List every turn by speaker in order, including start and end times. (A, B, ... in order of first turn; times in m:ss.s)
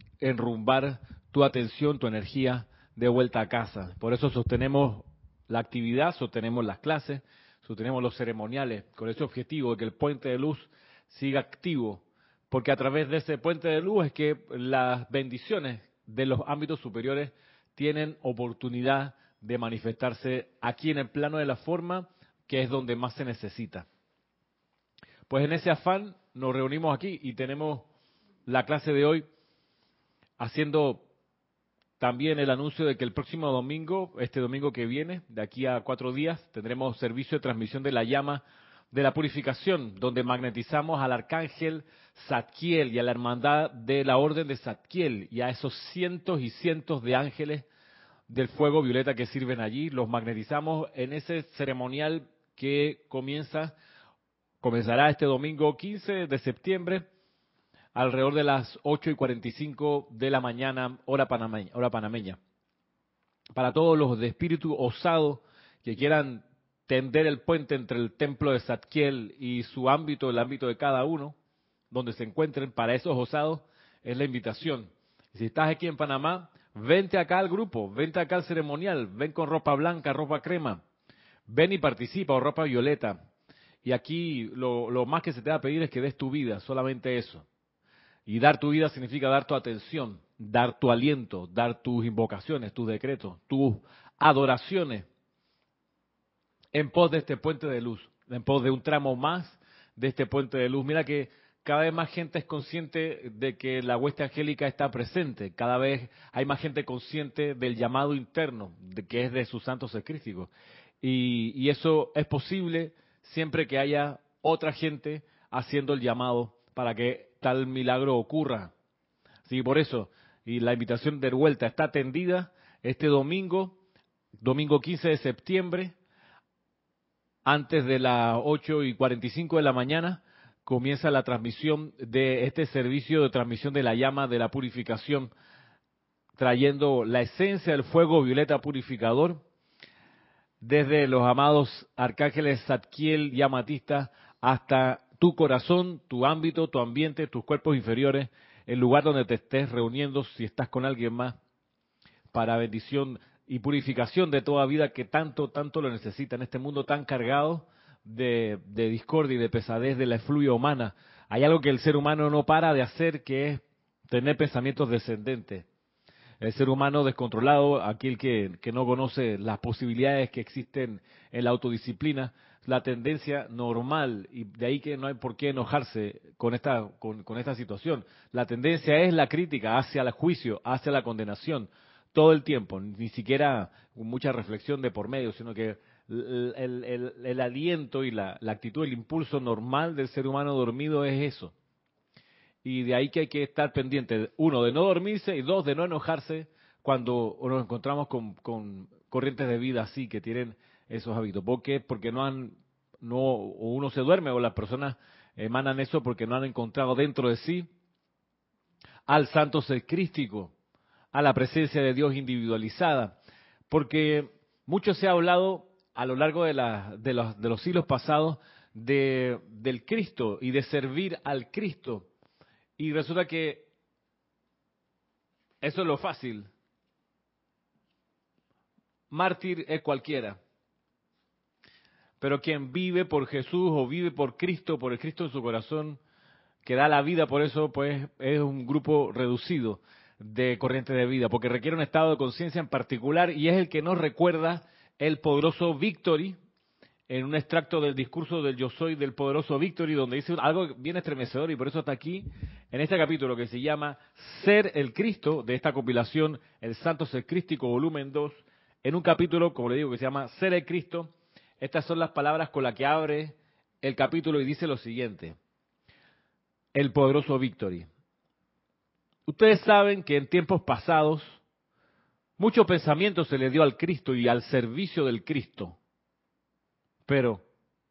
0:00.2-0:23.9 A
0:25.3-0:27.9 A
0:28.5-0:29.2 A
0:30.4-0:31.1 A
0:32.0-0:47.7 A
0:48.3-0:53.8 A
0:54.6-0:57.0 A
0:57.9-1:02.4 A
1:03.6-1:11.4 A
1:11.9-1:20.8 A
1:21.5-1:23.2 A
1:23.8-1:27.5 A
1:28.3-1:35.1 A
1:36.7-1:58.7 A
1:59.5-2:03.8 A
2:04.4-2:06.0 A
2:07.4-2:15.3 A
2:16.4-2:19.4 A
2:20.6-2:31.4 A
2:32.3-2:45.7 A
2:46.4-3:11.5 A
3:12.6-3:27.7 A
3:29.1-3:30.5 A
3:31.1-3:33.2 A
3:33.7-3:42.1 A
3:42.8-3:43.7 A
3:45.6-3:46.5 A
3:49.1-3:50.4 A
3:52.2-3:56.0 A
3:56.6-4:06.4 A
4:07.1-4:25.4 A
4:26.7-4:27.9 A
4:29.3-4:31.4 A
4:32.4-4:35.8 A
4:37.1-4:37.4 A